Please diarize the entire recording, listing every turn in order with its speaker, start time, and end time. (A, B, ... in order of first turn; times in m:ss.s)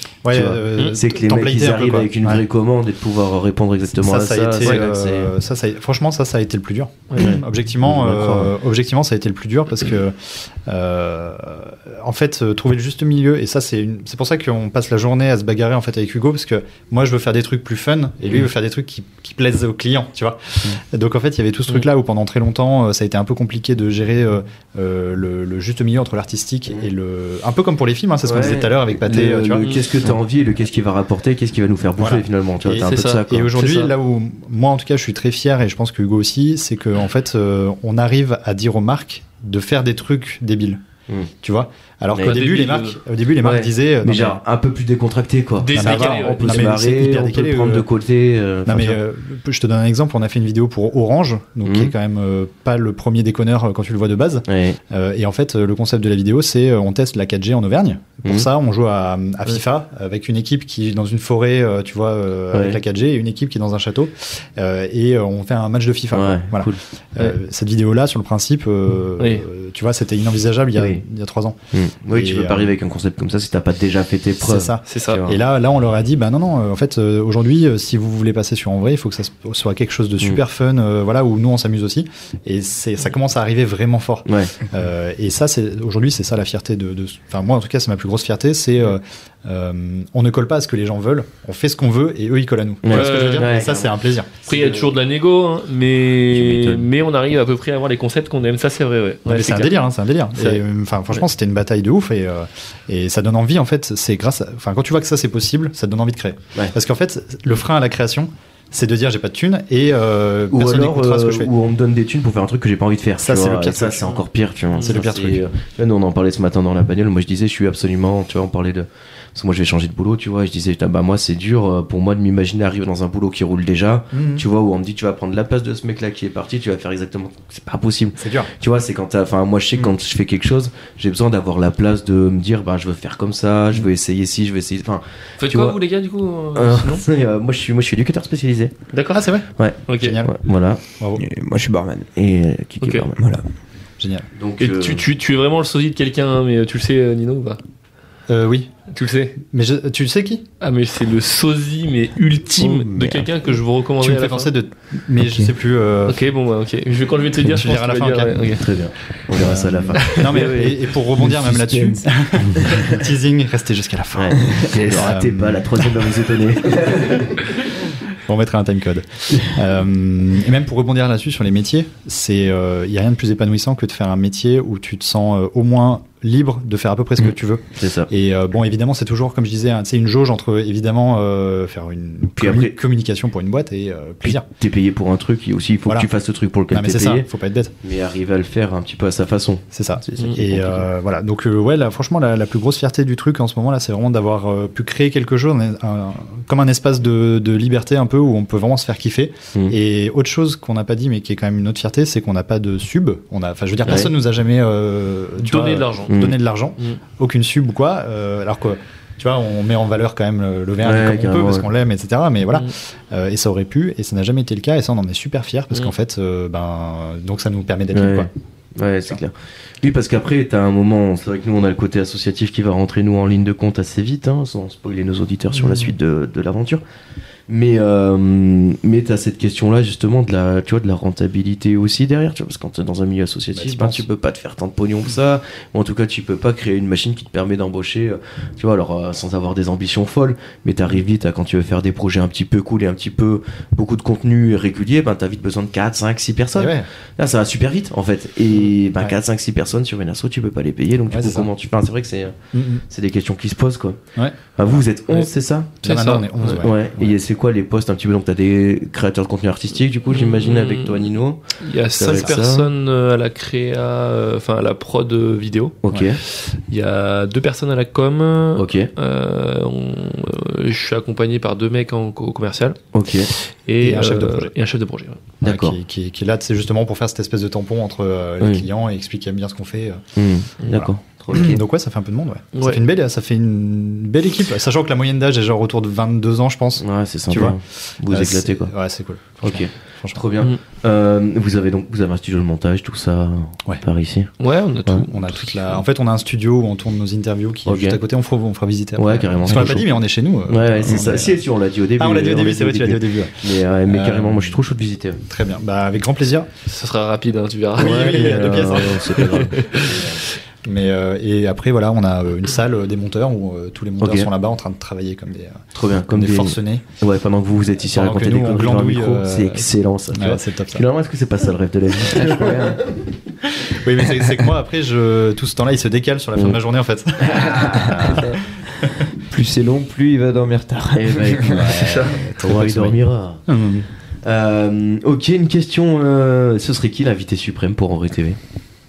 0:00.2-0:02.4 A
0:00.3-0:05.3 B
0:04.0-0:29.7 A
0:07.2-0:08.5 B
0:28.2-0:33.5 B
0:29.6-0:29.9 C
0:32.0-0:40.8 A
0:32.8-0:33.9 C
0:41.4-0:44.4 A
0:42.1-0:42.4 B
0:42.2-0:43.0 C
0:43.4-0:49.0 B
0:45.6-0:46.7 C
0:45.7-0:47.9 A
0:48.6-1:12.7 A
0:51.6-0:51.9 B
0:54.5-0:54.8 B
1:02.5-1:02.8 B
1:06.1-1:06.8 B
1:09.2-1:09.4 C
1:10.7-1:11.0 B
1:11.7-1:15.4 B
1:14.4-1:34.4 A
1:14.9-1:15.2 C
1:24.2-1:24.5 B
1:32.8-1:33.9 B
1:32.9-1:33.6 C
1:34.4-1:39.8 C
1:34.5-1:34.8 B
1:36.3-1:36.9 B
1:39.3-1:51.5 A
1:40.4-1:40.6 C
1:50.5-2:15.8 B
1:53.2-1:55.4 A
2:04.1-2:04.4 A
2:08.2-2:08.5 A
2:15.4-2:17.0 C
2:16.5-2:18.7 B
2:18.9-2:19.3 C
2:19.1-2:20.4 A
2:19.6-2:20.8 B
2:19.9-2:20.2 C
2:21.2-2:22.1 D
2:22.2-2:23.2 B
2:22.8-2:23.1 C
2:23.1-2:23.4 D
2:24.0-2:24.3 A
2:24.3-2:25.0 B
2:24.6-2:27.6 C
2:28.3-2:28.7 A
2:28.9-2:29.4 C
2:29.4-2:30.4 A
2:30.6-2:34.5 C
2:32.6-2:33.4 D
2:34.0-2:36.2 A
2:35.2-2:35.5 D
2:36.1-2:38.7 C
2:37.4-2:38.4 A
2:38.6-2:40.8 B
2:39.4-2:45.9 A
2:40.2-2:40.5 C
2:41.2-2:43.0 D
2:44.1-2:47.3 B
2:48.1-3:04.4 A
2:57.2-2:58.1 B
3:02.4-3:02.8 B
3:04.2-3:07.3 B
3:06.7-3:07.7 A
3:07.8-3:10.8 B
3:09.7-3:38.3 A
3:23.8-3:24.1 B
3:25.4-3:27.0 C
3:26.1-3:26.4 B
3:30.8-3:31.7 B
3:37.9-3:46.8 B
3:45.6-3:45.9 A
3:47.5-4:12.4 B
3:53.5-3:54.0 A
4:06.5-4:06.9 A
4:11.1-4:11.5 A
4:12.5-4:12.8 A
4:12.9-4:14.0 B
4:14.2-4:15.2 A
4:14.6-4:21.4 B
4:15.8-4:17.1 A
4:15.8-4:16.6 C
4:20.1-4:35.3 C
4:22.0-4:22.7 B
4:25.8-4:26.2 B
4:28.5-4:28.9 B
4:32.9-4:33.3 B
4:33.8-4:34.5 A
4:35.4-4:35.8 B
4:35.4-4:40.0 A
4:38.4-4:38.6 B
4:40.2-4:41.6 B
4:40.7-4:50.2 A
4:42.5-4:42.8 C
4:46.8-4:48.7 B
4:49.4-4:54.3 B
4:54.4-4:55.8 C
4:55.0-5:01.4 A
4:57.6-4:58.0 B
4:59.0-4:59.9 B
5:00.5-5:05.2 B
5:02.0-5:04.6 A
5:05.2-5:06.5 A
5:06.7-5:10.0 C
5:07.8-5:16.8 A
5:07.8-5:10.1 B
5:14.0-5:14.3 B
5:15.7-5:23.1 B
5:17.9-5:20.8 A
5:22.1-5:22.8 D
5:23.4-5:29.0 A
5:27.4-5:28.2 B
5:27.5-5:27.9 D
5:29.2-5:31.7 D
5:30.9-5:33.4 B
5:31.5-5:33.9 A
5:31.7-5:32.2 C
5:34.2-5:38.4 B